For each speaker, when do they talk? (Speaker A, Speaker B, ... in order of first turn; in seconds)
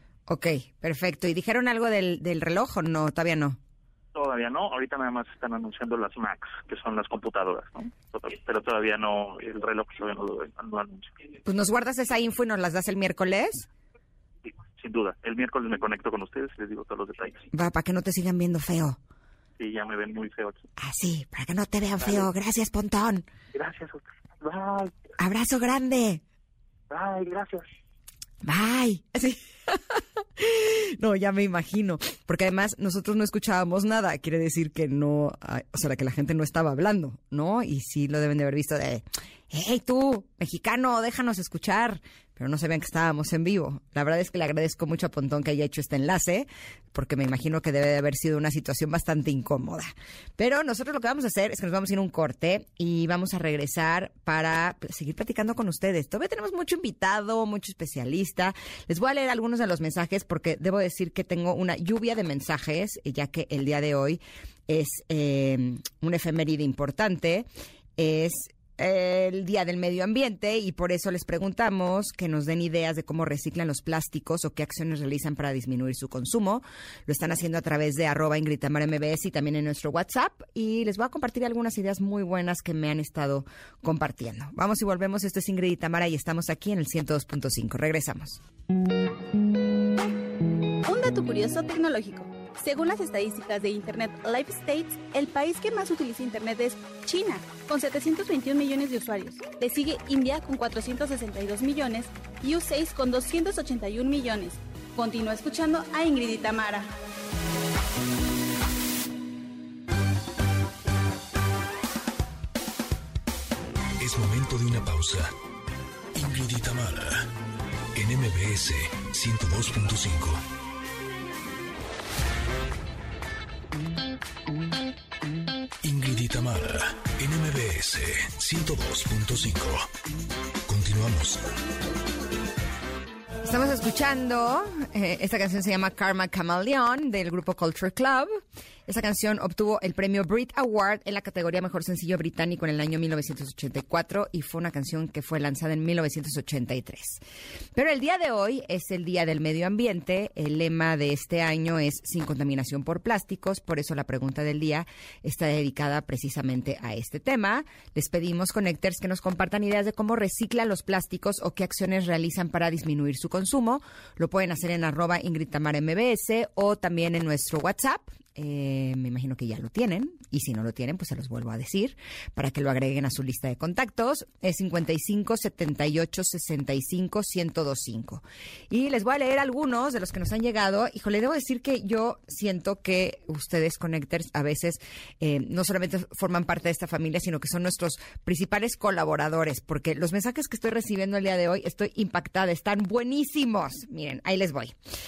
Speaker A: 0.3-3.6, 11.4-13.7, 17.5-19.0, 20.8-23.3, 25.2-26.2, 28.4-88.4, 133.4-138.3, 138.9-147.2, 147.8-194.8
Speaker B: 4.1-11.1, 14.8-17.4, 19.6-20.6, 23.5-24.9, 26.9-27.6
Speaker C: 90.8-106.9
Speaker D: 114.0-115.3, 116.1-117.3, 117.9-120.4, 125.8-129.9, 130.7-131.4